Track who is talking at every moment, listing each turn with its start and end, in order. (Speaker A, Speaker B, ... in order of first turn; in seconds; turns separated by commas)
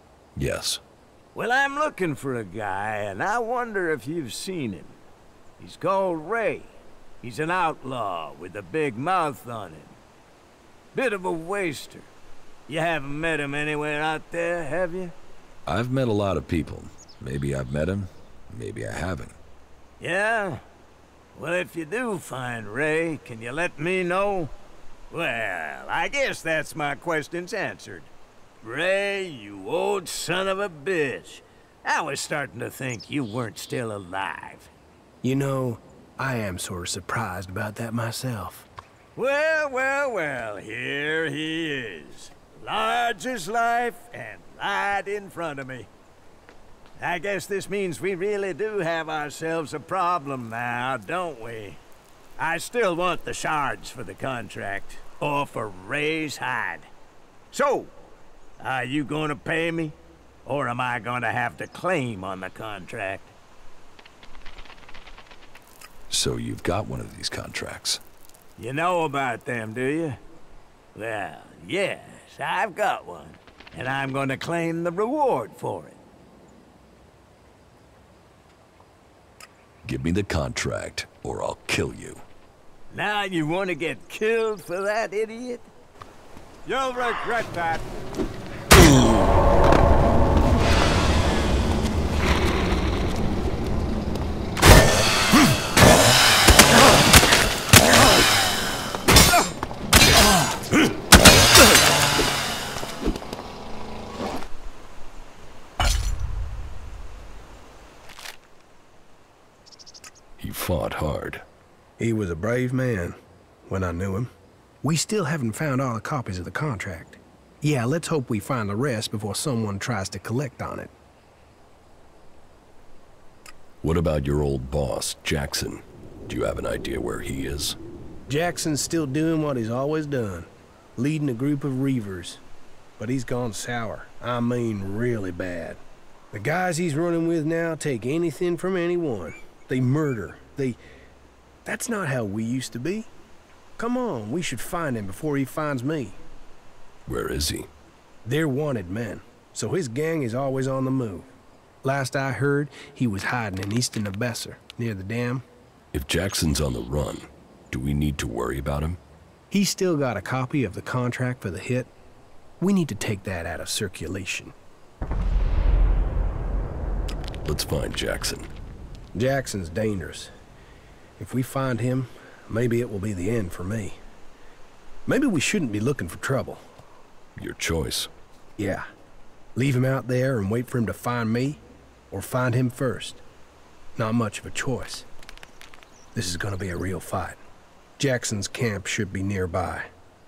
Speaker A: 0.3-0.8, Speaker B: 1.3-5.0, Speaker B: 5.6-10.0, Speaker B: 10.9-12.1, Speaker B: 12.7-15.1, Speaker A: 15.7-19.4, Speaker B: 20.0-20.6, Speaker B: 21.3-24.5, Speaker B: 25.1-34.7, Speaker C: 35.2-38.7, Speaker B: 39.2-45.9, Speaker B: 47.0-51.8, Speaker B: 52.4-56.9, Speaker B: 57.5-57.9, Speaker B: 58.6-63.3, Speaker A: 66.1-68.0, Speaker B: 68.6-70.2, Speaker B: 70.9-76.0, Speaker A: 79.8-82.2, Speaker B: 82.9-85.7, Speaker B: 86.7-87.9, Speaker A: 110.4-111.4, Speaker C: 112.0-113.1, Speaker C: 113.7-114.3, Speaker C: 114.8-120.9, Speaker A: 123.8-127.8, Speaker C: 128.3-132.4, Speaker C: 133.0-135.8, Speaker C: 136.3-140.8, Speaker C: 141.7-143.1, Speaker C: 143.8-146.2, Speaker A: 147.1-147.7, Speaker C: 148.2-151.3, Speaker C: 151.8-155.4, Speaker A: 155.9-159.0, Speaker C: 159.5-161.9, Speaker C: 162.6-164.5, Speaker A: 167.4-168.5, Speaker C: 169.2-170.3, Speaker C: 171.2-174.0, Speaker C: 175.1-176.6, Speaker A: 177.4-178.1, Speaker C: 178.6-178.8, Speaker C: 179.6-183.2, Speaker C: 184.0-185.1, Speaker C: 186.1-187.4, Speaker C: 188.0-189.9